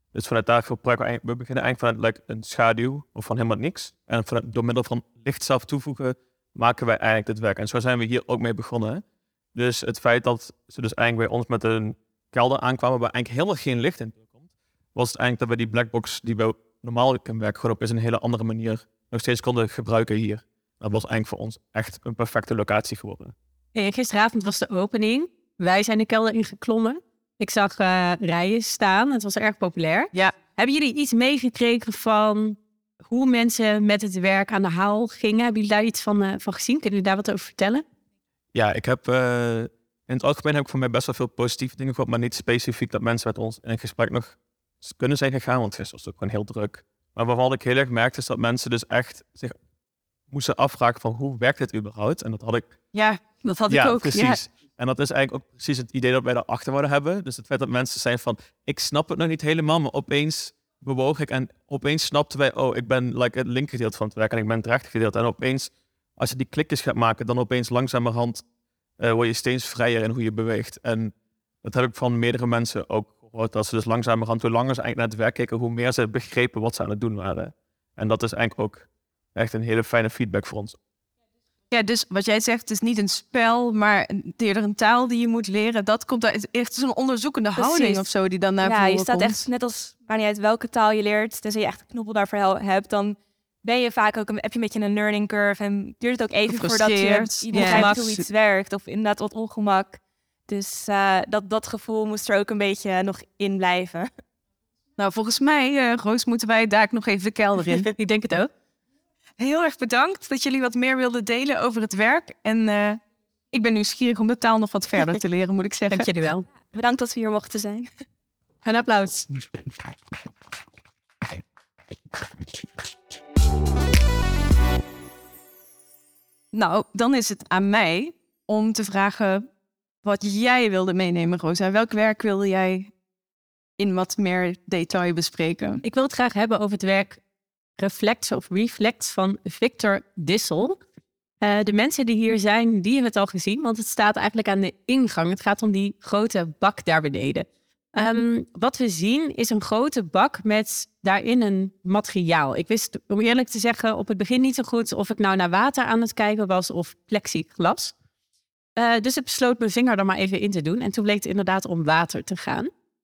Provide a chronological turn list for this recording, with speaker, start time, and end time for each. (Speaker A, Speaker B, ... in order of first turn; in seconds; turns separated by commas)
Speaker A: 0.1-9.0, Speaker A: 9.5-14.4, Speaker A: 14.9-23.4, Speaker B: 23.8-37.9, Speaker A: 38.5-49.5, Speaker A: 50.3-52.8, Speaker C: 52.9-54.4, Speaker A: 53.7-68.5, Speaker A: 69.0-80.8, Speaker C: 81.7-89.4, Speaker D: 87.6-88.1, Speaker D: 88.6-104.1, Speaker C: 96.5-98.0, Speaker B: 97.5-98.0, Speaker C: 105.0-107.9, Speaker B: 108.0-108.5, Speaker C: 109.4-113.0, Speaker C: 113.5-116.1, Speaker B: 115.9-116.5, Speaker D: 116.6-117.9, Speaker B: 118.7-119.3, Speaker C: 126.5-129.5, Speaker C: 130.0-132.9, Speaker C: 133.8-135.8, Speaker B: 135.8-137.2, Speaker B: 137.8-140.8, Speaker B: 141.4-157.9, Speaker B: 158.8-162.7